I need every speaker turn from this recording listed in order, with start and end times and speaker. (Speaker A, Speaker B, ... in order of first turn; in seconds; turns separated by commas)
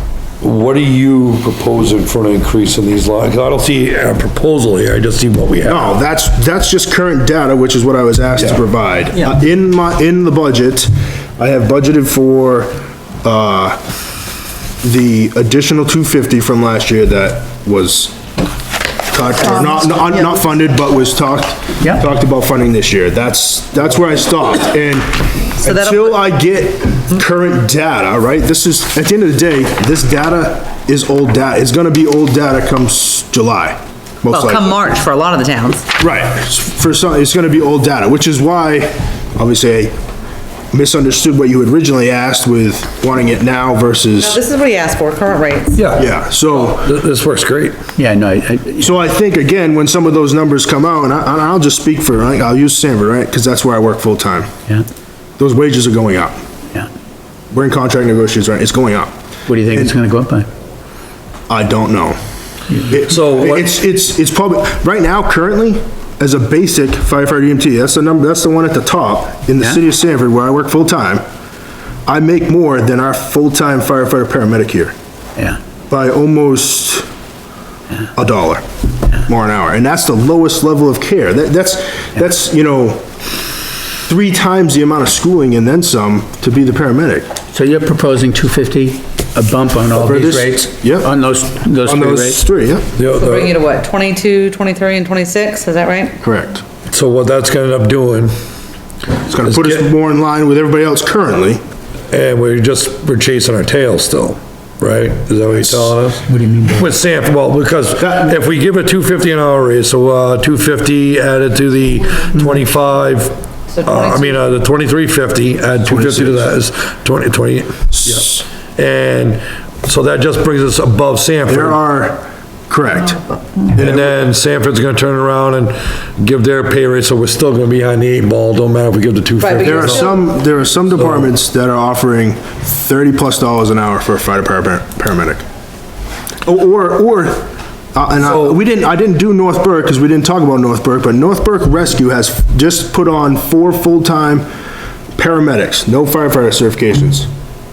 Speaker A: 0.4-5.9, Speaker B: 5.7-13.8, Speaker B: 14.8-18.2, Speaker B: 19.1-34.8, Speaker C: 25.6-26.2, Speaker C: 34.3-35.9, Speaker B: 36.0-39.9, Speaker B: 40.7-44.4, Speaker C: 44.2-45.8, Speaker A: 45.8-46.1, Speaker B: 46.0-46.9, Speaker A: 46.7-47.8, Speaker D: 48.0-48.9, Speaker B: 48.8-54.5, Speaker B: 55.4-56.4, Speaker B: 57.5-59.1, Speaker D: 59.5-60.5, Speaker B: 61.5-62.2, Speaker B: 62.8-71.2, Speaker A: 63.1-63.6, Speaker B: 72.1-74.9, Speaker B: 75.9-77.1, Speaker B: 78.2-78.6, Speaker B: 79.2-83.0, Speaker B: 84.1-87.3, Speaker D: 87.5-92.4, Speaker B: 90.0-91.1, Speaker B: 91.8-92.9, Speaker A: 93.0-93.5, Speaker C: 93.1-96.2, Speaker B: 96.2-96.6, Speaker A: 96.9-98.3, Speaker B: 99.3-101.6, Speaker A: 99.5-99.8, Speaker A: 102.1-121.8, Speaker D: 106.2-106.9, Speaker B: 108.0-108.3, Speaker C: 113.7-114.5, Speaker B: 115.8-116.5, Speaker B: 117.9-118.4, Speaker B: 121.5-123.2, Speaker B: 123.7-124.2, Speaker A: 123.8-130.2, Speaker C: 129.4-130.2, Speaker B: 129.6-135.4, Speaker A: 130.9-131.3, Speaker B: 136.4-144.5, Speaker A: 138.2-138.6, Speaker B: 145.2-147.3